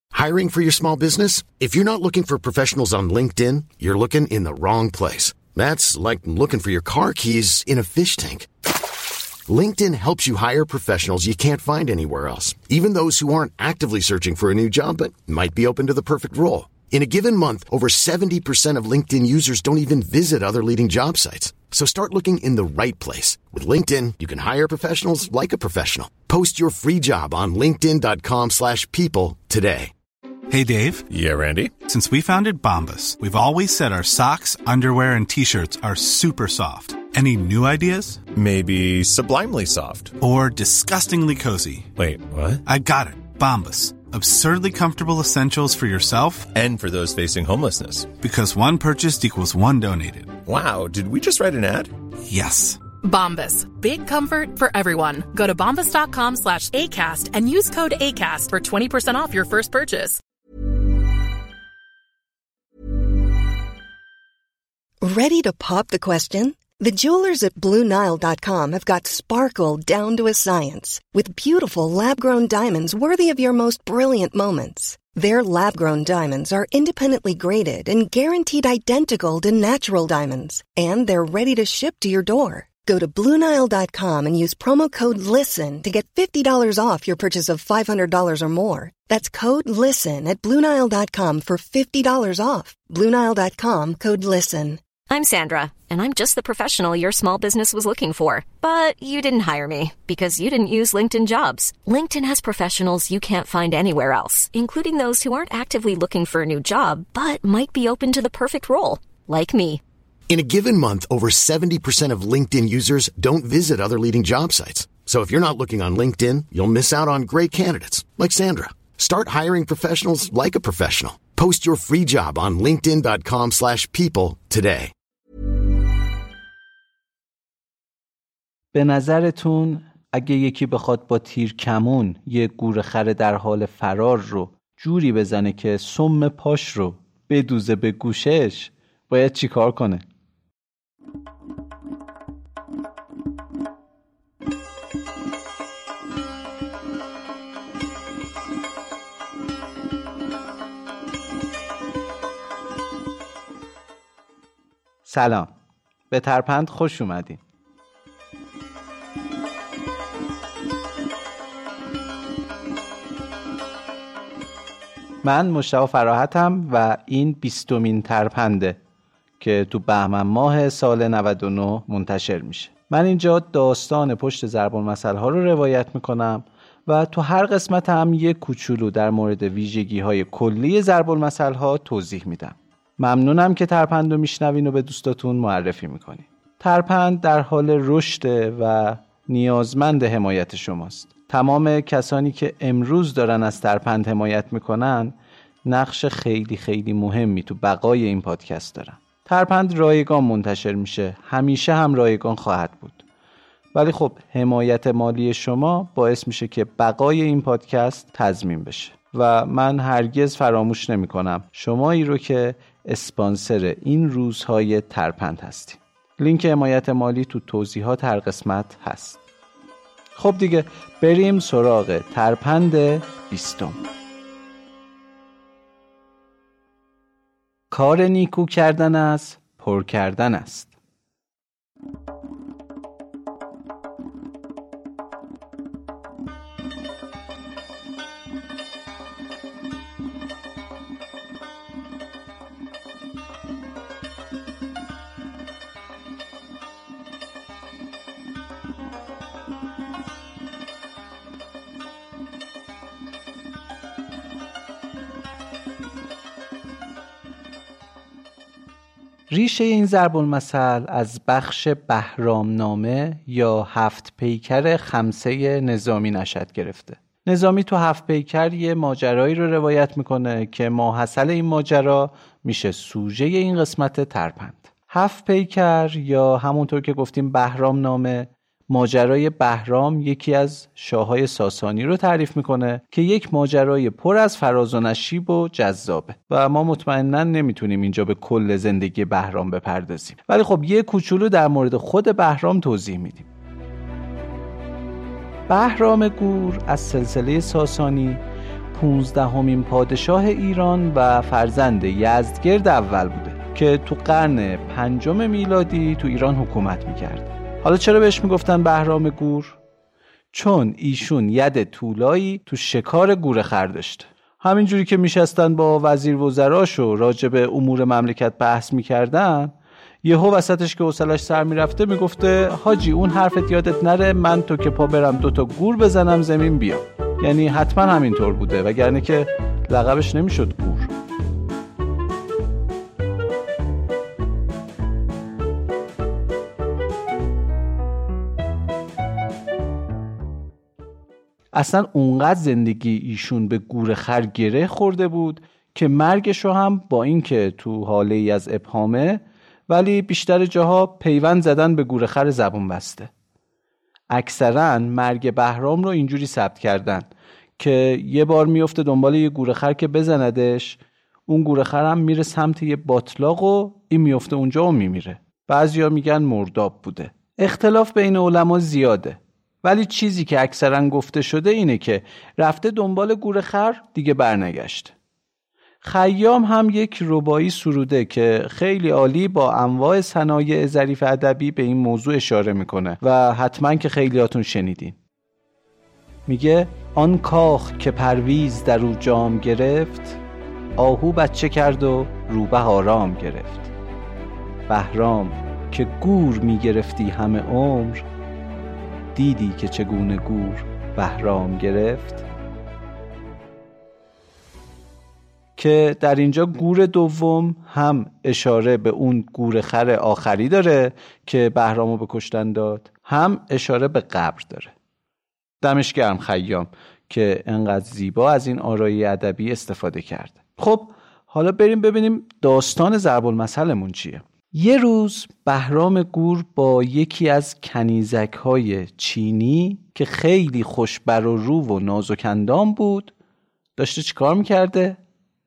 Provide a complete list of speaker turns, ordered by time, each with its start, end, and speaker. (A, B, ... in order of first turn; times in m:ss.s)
0:00.1-0:08.5 A
0:09.5-0:29.9 A
0:30.5-0:31.1 B
0:31.1-0:31.8 C
0:31.8-0:38.2 B
0:38.3-0:40.2 C
0:40.2-0:41.9 B
0:42.0-0:42.6 C
0:42.6-0:46.5 B
0:46.5-0:48.1 C
0:48.2-0:50.4 B
0:50.4-0:51.9 C
0:52.3-0:52.8 B
0:53.0-1:00.1 D
1:05.0-1:34.8 E
1:35.1-1:49.8 F
1:50.3-2:04.9 A
2:08.7-2:20.0 G
2:35.0-2:35.5 G
2:36.1-2:37.4 G
2:45.2-2:48.8 G
2:49.4-3:15.1 G
3:15.7-3:23.0 G
3:23.7-3:39.2 G
3:40.2-3:43.8 G
3:47.7-3:50.7 G
4:19.3-4:53.3 G
4:55.5-4:58.2 G
4:58.7-5:09.6 G
5:10.3-5:30.9 G
5:41.5-5:53.1 G
5:54.1-6:14.9 G
6:15.8-6:25.0 G
6:26.3-6:30.2 G
6:30.8-6:33.7 G
6:34.7-6:38.0 G
6:39.1-6:42.2 G
6:45.6-6:54.7 G
6:55.6-7:13.1 G
7:13.8-7:15.0 G